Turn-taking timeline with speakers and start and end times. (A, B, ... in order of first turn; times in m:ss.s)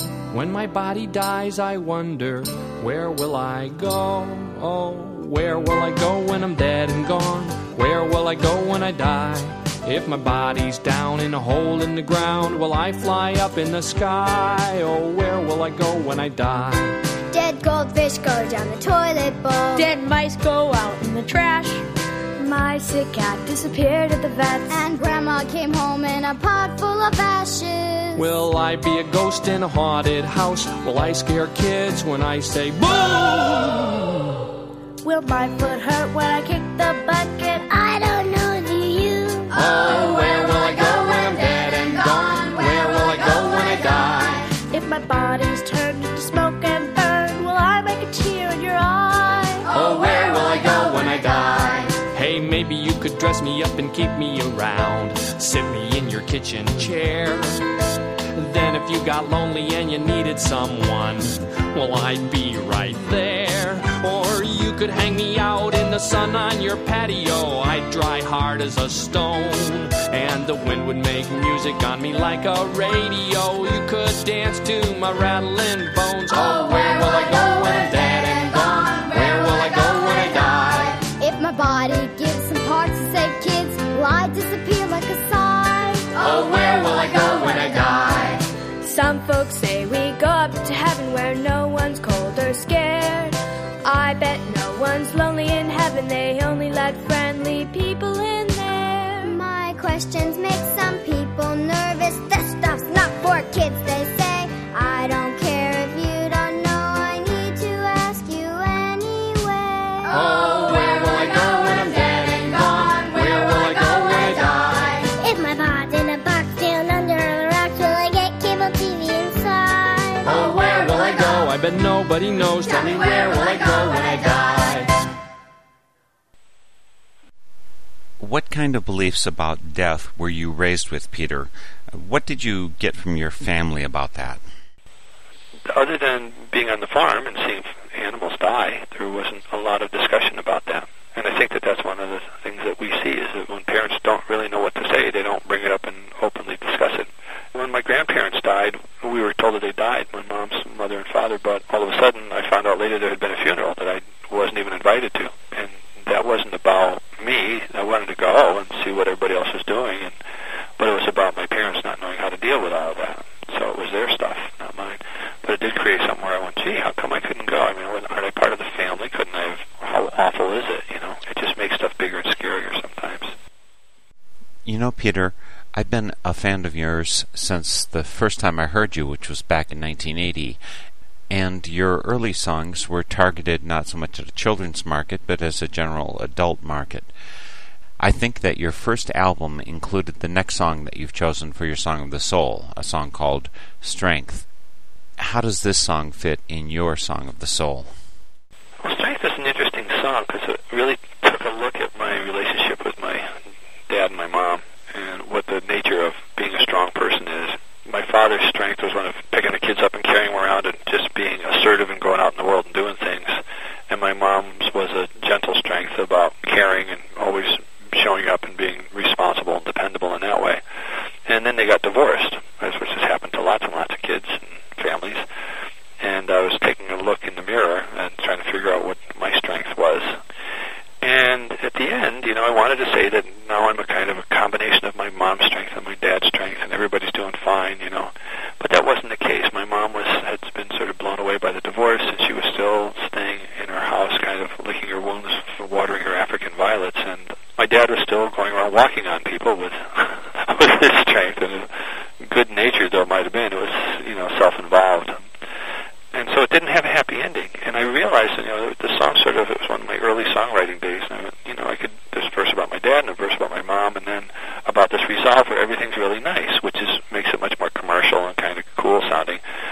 0:00.3-0:17.0 A
0:17.3-0:19.9 B
0:19.7-0:21.8 C
0:22.4-0:24.8 C
0:24.7-0:28.2 B
0:28.1-0:34.3 A
0:35.0-0:39.4 C
0:39.5-0:44.4 A
0:44.6-0:49.7 C
0:49.7-0:57.6 A
0:58.3-1:21.0 A
1:19.0-1:19.4 B
1:21.0-1:28.4 B
1:28.8-1:39.4 C
1:39.2-1:50.4 B
1:50.1-1:55.0 A
1:55.0-2:00.4 B
2:00.2-2:04.9 A
2:08.2-2:14.4 D
2:15.7-2:40.1 E
2:40.8-2:53.3 E
2:54.6-3:00.6 D
3:01.3-3:07.1 D
3:08.0-3:14.5 D
3:15.2-3:17.9 D
3:18.8-3:23.4 E
3:23.9-3:40.6 E
3:41.3-3:45.2 E
3:46.0-3:50.2 E
3:51.0-4:11.7 E
4:12.2-4:15.2 E
4:16.1-4:29.4 E